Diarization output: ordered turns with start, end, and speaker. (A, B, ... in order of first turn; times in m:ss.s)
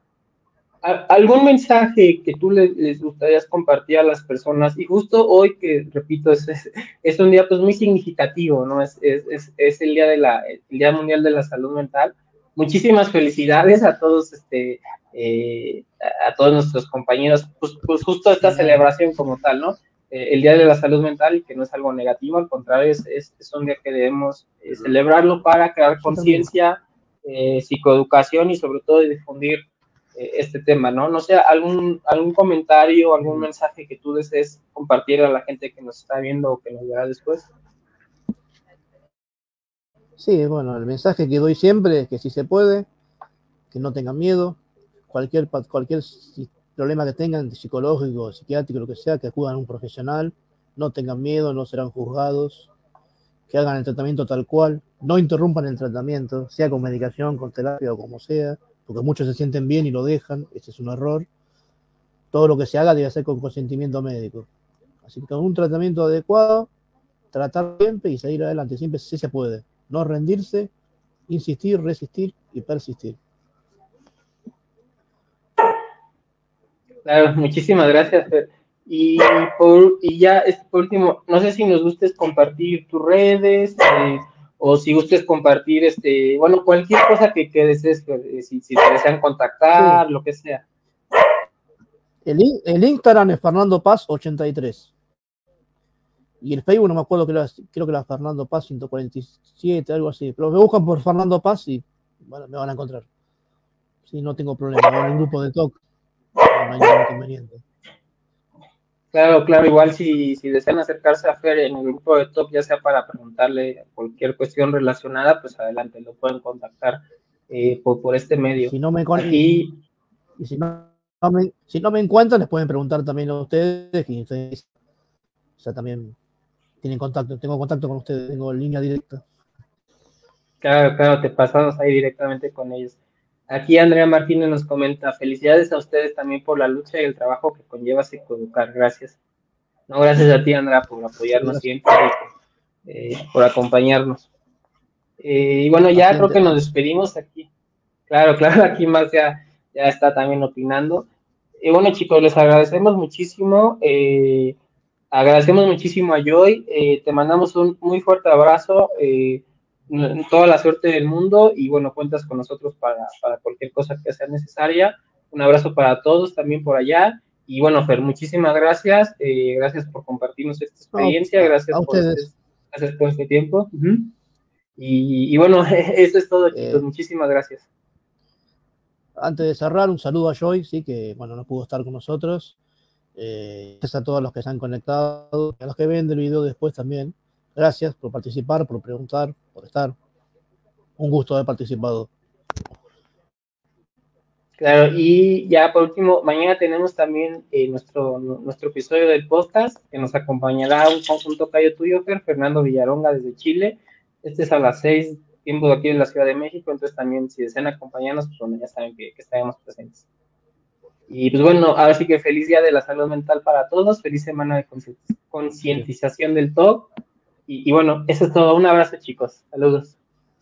0:00.8-0:29.6 A
0:18.4-0:18.8 B
0:26.0-0:26.5 B
0:30.1-0:37.5 A
0:40.2-0:42.9 B
0:43.7-0:44.6 B
0:45.1-0:52.7 B
0:53.5-1:01.3 B
1:02.3-1:04.5 B
1:05.0-1:06.7 B
1:07.3-1:10.7 B
1:11.3-1:13.2 B
1:17.0-1:30.6 A
1:29.7-1:30.0 B
1:32.2-1:34.9 B
1:36.4-1:43.0 B
1:44.0-1:45.8 B
1:46.5-1:47.6 B
1:49.1-1:59.8 A
1:58.6-1:59.4 B
2:00.4-2:04.6 B
2:05.6-2:06.2 B
2:06.8-2:09.2 B
2:10.6-2:13.0 A
2:13.5-2:19.2 A
2:19.9-2:22.3 A
2:21.3-2:21.6 B
2:22.8-2:24.3 A
2:25.2-2:27.5 A
2:25.9-2:26.6 B
2:28.1-2:31.1 A
2:31.6-2:34.6 A
2:35.1-2:54.1 A
2:50.9-2:52.3 B
2:54.8-2:57.7 A
2:56.5-2:56.8 B
2:59.2-3:02.5 B
3:03.2-3:10.0 B
3:11.0-3:12.1 B
3:14.6-3:30.0 A
3:31.1-3:36.9 A
3:37.5-3:40.0 A